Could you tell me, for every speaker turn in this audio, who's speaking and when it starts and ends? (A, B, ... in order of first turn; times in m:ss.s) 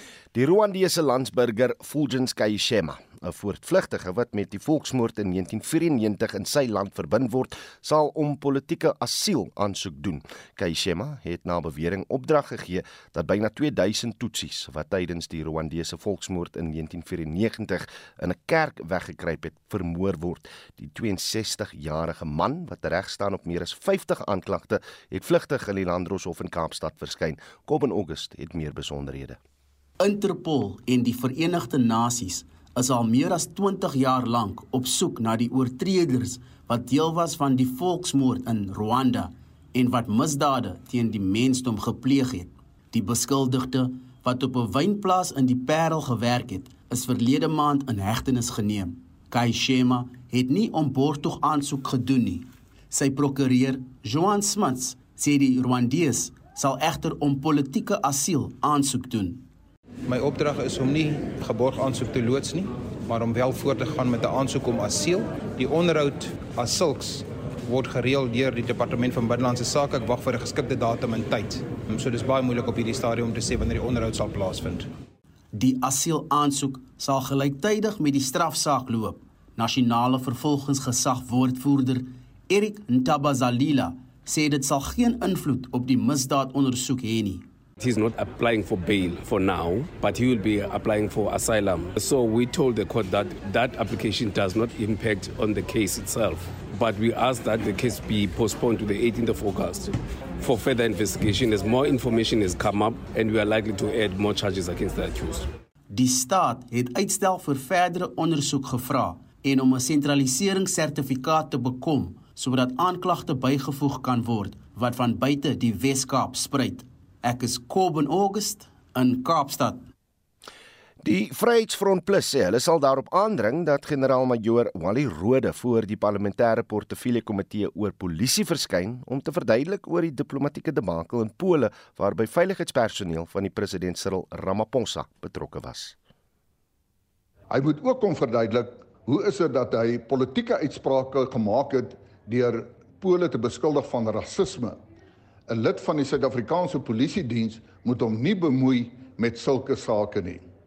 0:00.3-0:29.4 A
0:30.0-0:59.4 B
1:00.1-1:14.9 C
1:15.5-1:27.4 B
1:27.8-1:45.5 D
1:45.9-1:59.8 B
2:01.0-2:16.0 A
2:17.5-2:24.8 E
2:25.5-2:30.4 E